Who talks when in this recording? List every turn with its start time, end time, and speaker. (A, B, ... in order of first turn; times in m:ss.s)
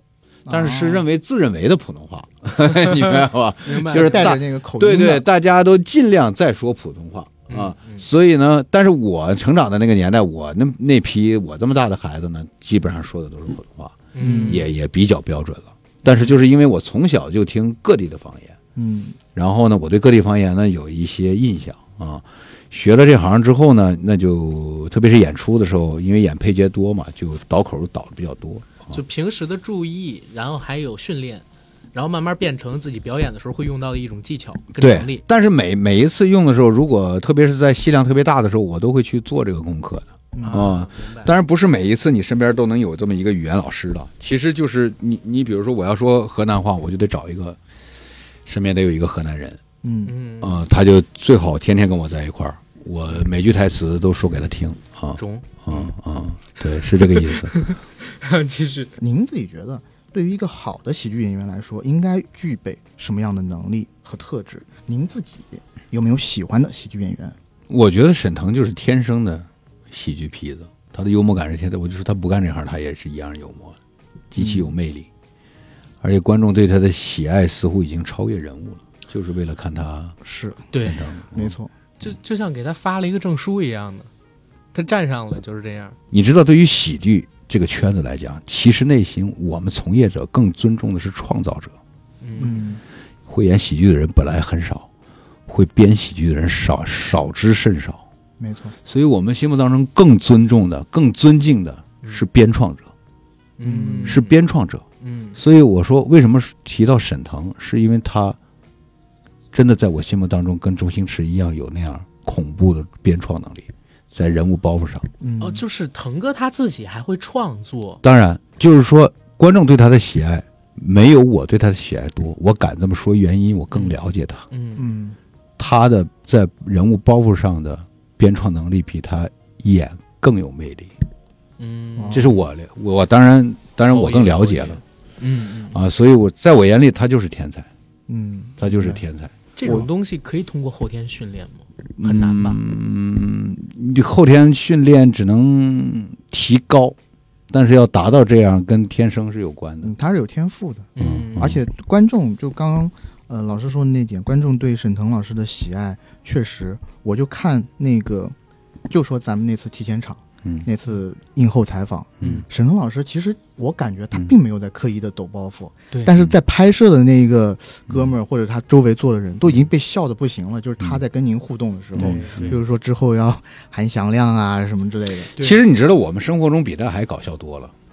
0:00.5-0:01.1 A
0:00.5-0:18.6 B
0:03.6-0:04.3 C
0:03.9-0:05.3 A
0:07.5-0:08.0 C
0:14.1-0:14.7 C
0:14.2-0:14.7 A
0:16.1-0:16.3 C
0:18.8-0:19.2 A
0:19.4-0:29.0 B
0:28.9-0:35.2 C
0:34.8-0:47.6 B
0:40.3-0:40.7 A
0:40.4-0:41.3 C
0:48.5-0:49.6 B
0:49.8-0:50.1 A
0:50.0-0:50.6 C
0:50.4-0:57.6 B
0:55.2-0:55.9 C
0:57.1-0:58.9 C
0:59.0-1:07.4 A
1:07.7-1:13.8 B
1:14.3-1:15.1 B
1:14.4-1:14.7 A
1:16.0-1:20.2 B
1:20.2-1:20.6 A
1:20.7-1:21.0 C
1:20.8-1:21.6 B
1:21.3-1:21.7 A
1:22.0-1:24.1 C
1:24.7-1:26.0 C
1:26.1-1:31.7 B
1:32.2-1:32.6 C
1:32.4-1:32.8 A
1:33.3-1:34.9 B
1:35.5-1:38.0 B
1:38.4-1:38.8 A
1:38.9-1:42.9 B
1:43.6-1:44.4 C
1:43.6-1:44.2 A
1:44.0-1:44.8 B
1:45.0-1:45.4 C
1:45.4-1:48.4 B
1:49.5-1:55.1 B
1:55.2-1:55.6 A
1:55.4-1:58.0 C
1:58.0-2:04.5 B
2:03.7-2:04.0 C
2:04.5-2:04.9 C
2:04.8-2:05.2 A
2:05.6-2:10.9 B
2:11.6-2:12.4 C
2:12.0-2:12.4 A
2:12.1-2:14.8 B
2:13.9-2:15.8 C
2:15.7-2:17.7 B
2:18.1-2:19.0 A
2:18.6-2:19.8 B
2:19.6-2:22.6 C
2:22.0-2:27.0 B
2:27.5-2:29.9 B
2:29.8-2:38.4 A
2:31.0-2:31.5 C
2:31.0-2:31.6 B
2:38.9-2:55.4 A
2:51.9-2:52.6 B
2:52.0-2:52.6 C
2:55.4-2:57.7 B